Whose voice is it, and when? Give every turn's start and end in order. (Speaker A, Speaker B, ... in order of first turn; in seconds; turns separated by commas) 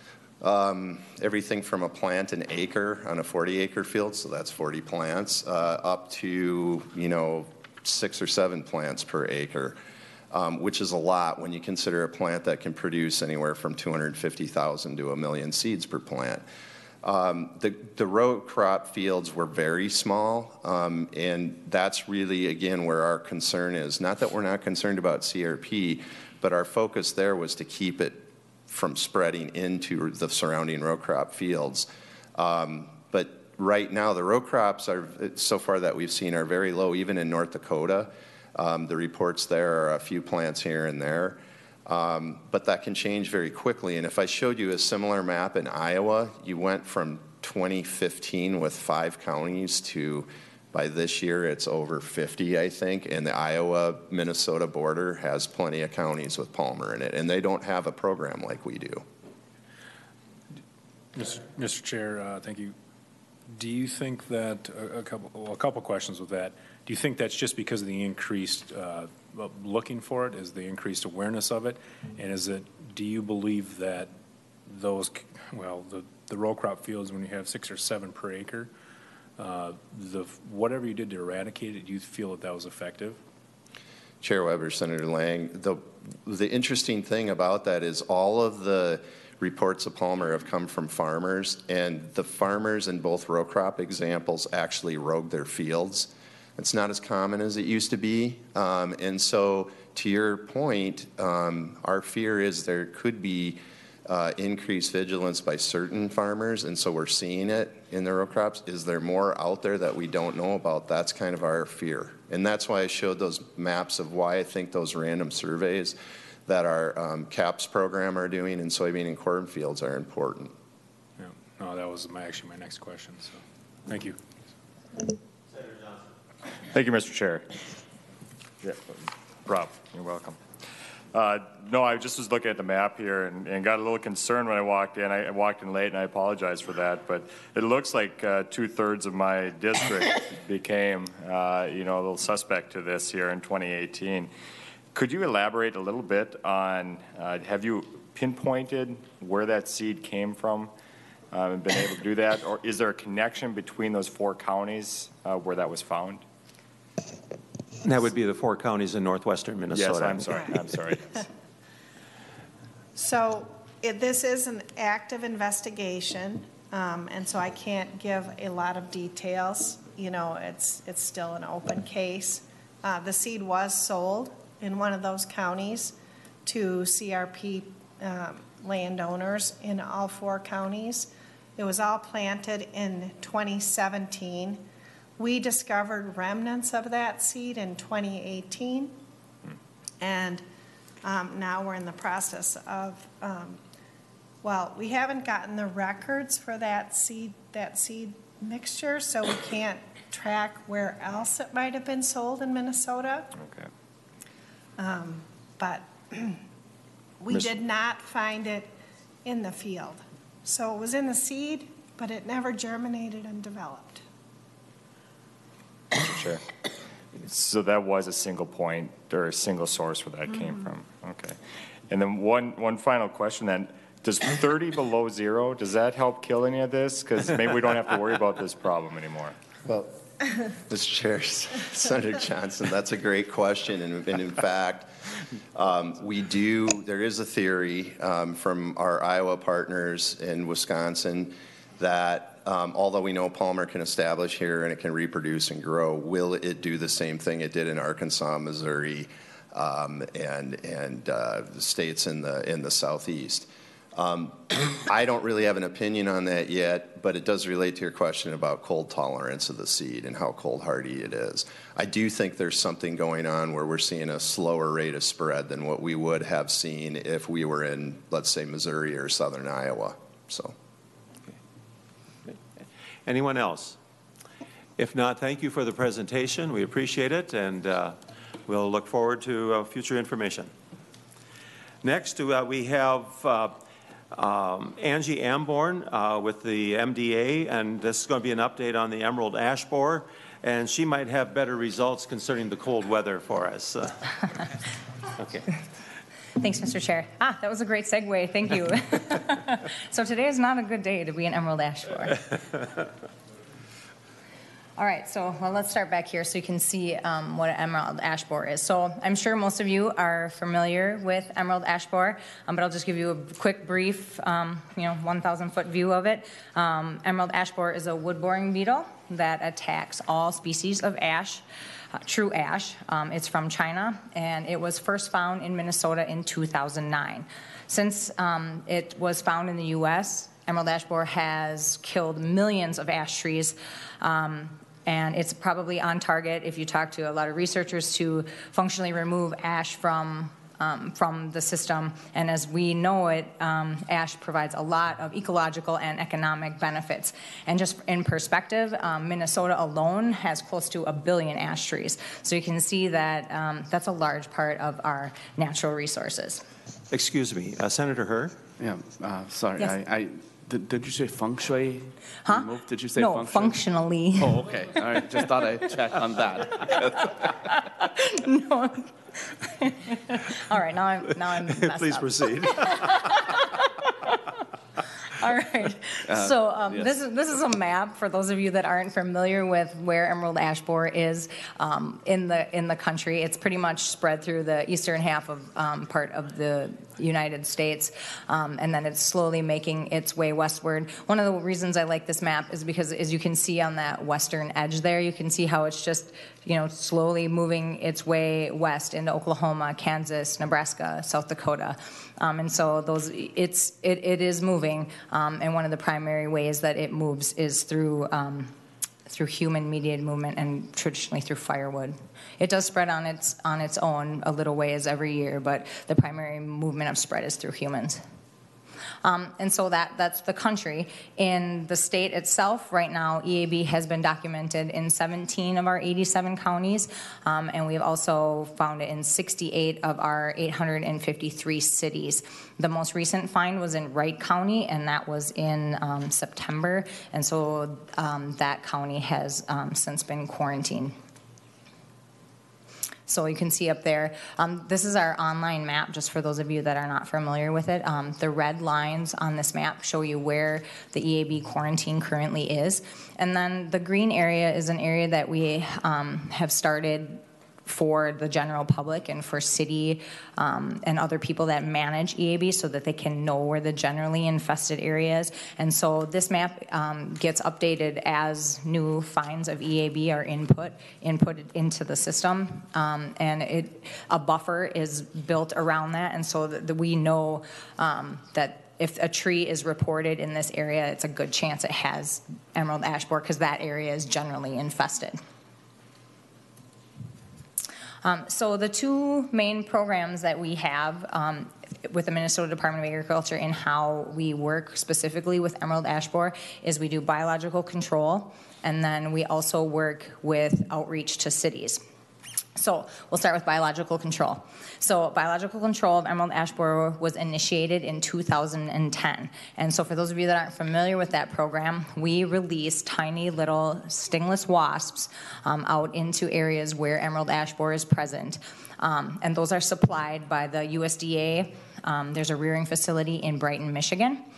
Speaker A: 0.4-9.8, Speaker A: 10.3-16.4, Speaker A: 17.0-59.0, Speaker B: 61.1-62.7, Speaker B: 63.5-74.1, Speaker B: 74.7-78.7, Speaker B: 79.4-83.2, Speaker A: 84.2-120.5, Speaker B: 121.2-124.2, Speaker C: 126.7-127.5, Speaker C: 128.6-130.4, Speaker C: 131.1-144.3, Speaker C: 144.9-150.7, Speaker C: 151.3-156.2, Speaker D: 157.8-160.2, Speaker C: 159.7-161.2, Speaker E: 162.9-175.9, Speaker E: 176.4-184.6, Speaker E: 185.2-188.9, Speaker E: 190.0-190.4, Speaker E: 191.0-193.6, Speaker E: 194.4-203.3, Speaker C: 203.4-203.7, Speaker E: 204.8-206.4, Speaker E: 207.2-208.7, Speaker E: 209.2-214.0, Speaker C: 215.9-216.4, Speaker C: 217.1-221.4, Speaker C: 221.9-229.3, Speaker A: 229.6-229.9, Speaker A: 230.5-234.9, Speaker A: 235.5-270.5, Speaker D: 273.1-273.8, Speaker D: 274.8-280.5, Speaker D: 281.8-283.6, Speaker D: 284.1-294.1, Speaker D: 295.2-295.5, Speaker F: 296.4-302.3, Speaker F: 304.8-321.4, Speaker F: 321.9-356.4, Speaker D: 356.9-358.4, Speaker G: 358.6-363.6, Speaker F: 362.2-364.5, Speaker G: 364.1-367.3, Speaker F: 367.8-374.1, Speaker D: 371.4-373.1, Speaker F: 375.1-408.5, Speaker G: 376.1-376.9, Speaker F: 409.1-418.0, Speaker F: 419.0-440.9, Speaker F: 443.1-485.2, Speaker F: 488.0-501.8, Speaker F: 502.6-524.2